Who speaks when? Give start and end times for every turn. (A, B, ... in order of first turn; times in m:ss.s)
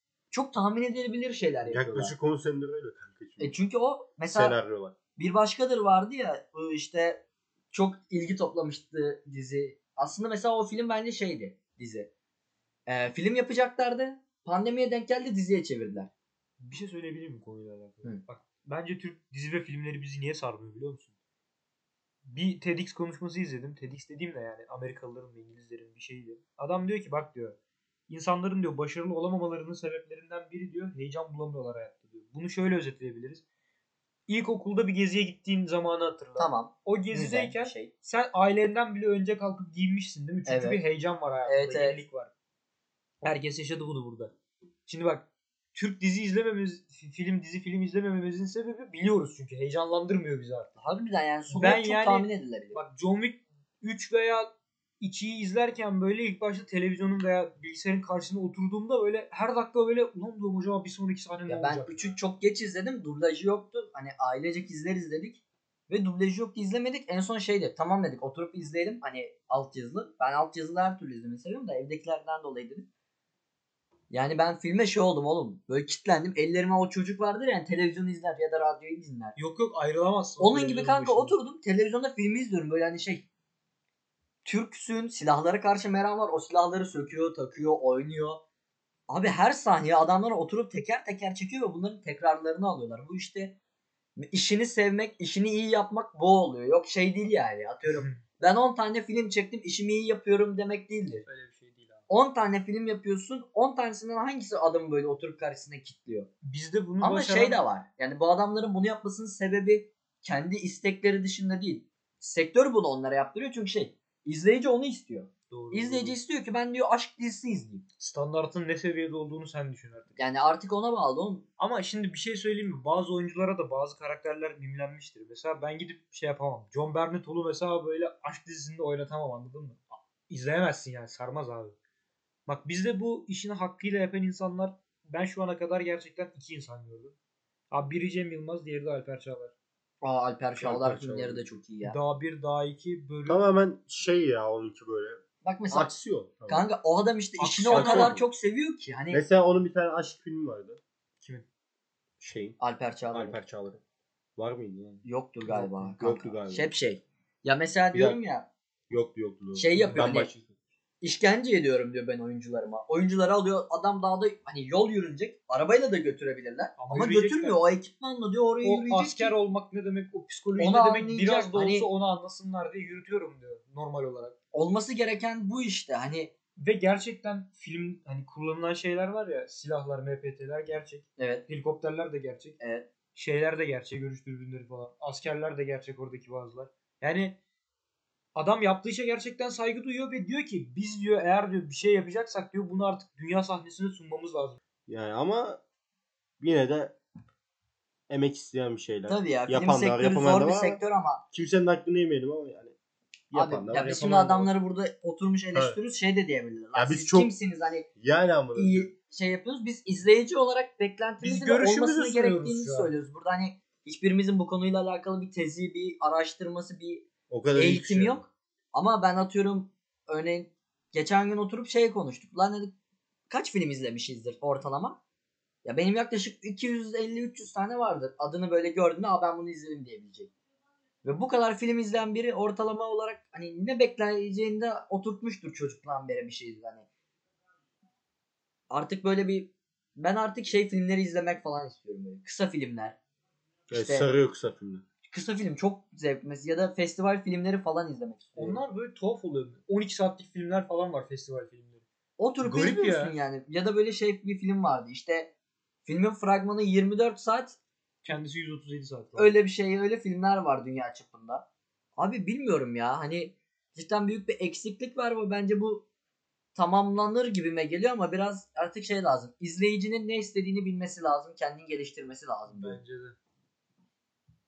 0:00.3-0:02.1 A
0:01.7-0:03.6 B
0:03.4-0:04.6 A
0:04.3-0:04.9 B
0:05.2-0:07.2 A
0:07.7-0:12.1 A
0:12.9-0:16.1 A
0:16.6-0:21.1 C
0:22.2-0:27.6 C
0:28.1-0:33.4 C
0:34.3-0:42.3 C
0:36.4-0:37.9 A
0:40.4-0:40.8 A
0:41.4-0:42.0 A
0:43.2-0:44.3 C
0:44.8-0:50.7 C
0:50.8-0:52.8 A
0:51.5-0:54.5 C
0:55.0-1:02.1 C
1:01.5-1:12.9 A
1:14.1-1:19.4 A
1:19.4-1:21.3 C
1:20.4-1:23.2 A
1:24.4-1:28.4 A
1:29.1-1:33.6 A
1:34.2-1:41.2 A
1:37.9-1:38.2 C
1:41.2-1:42.1 C
1:42.1-1:46.3 A
1:46.4-1:47.6 C
1:47.0-1:57.8 A
1:55.5-1:56.2 C
1:58.0-2:00.2 C
2:00.2-2:01.4 A
2:01.6-2:11.8 C
2:12.4-2:17.2 C
2:17.7-2:19.5 C
2:20.0-2:22.0 A
2:20.6-2:21.5 B
2:21.8-2:23.4 C
2:23.2-2:26.6 B
2:25.4-2:25.9 A
2:26.5-2:29.2 A
2:27.4-2:28.2 C
2:27.7-2:28.2 B
2:29.1-2:30.8 B
2:32.2-2:32.6 B
2:32.6-2:33.4 A
2:33.1-2:33.8 B
2:34.4-2:36.7 B
2:35.0-2:38.5 A
2:37.9-2:38.2 B
2:38.9-2:40.3 B
2:39.5-2:40.3 A
2:39.7-2:40.5 C
2:41.0-2:49.3 A
2:46.8-2:47.6 C
2:48.6-2:54.3 C
2:50.6-2:51.9 A
2:54.5-2:56.3 A
2:56.6-3:02.6 C
3:01.2-3:01.4 A
3:02.6-3:02.9 A
3:03.1-3:07.4 C
3:08.3-3:14.6 C
3:14.9-3:15.6 B
3:16.4-3:16.9 B
3:18.1-3:20.8 B
3:19.1-3:21.2 A
3:21.3-3:22.7 B
3:23.3-3:24.5 B
3:23.3-3:27.9 A
3:26.7-3:27.3 B
3:28.0-3:28.9 B
3:28.5-3:42.7 A
3:31.2-3:32.9 C
3:37.3-3:38.2 B
3:43.3-3:45.0 A
3:45.6-3:50.3 A
3:51.0-3:56.8 A
3:58.7-4:03.0 A
4:03.7-4:04.8 B
4:03.7-4:04.1 A
4:05.1-4:08.6 A
4:08.4-4:11.8 C
4:12.2-4:15.3 A
4:12.4-4:13.2 C
4:15.8-4:17.6 A
4:18.0-4:19.3 C
4:19.2-4:21.4 A
4:22.0-4:25.8 A
4:26.5-4:32.8 A
4:32.5-4:33.2 C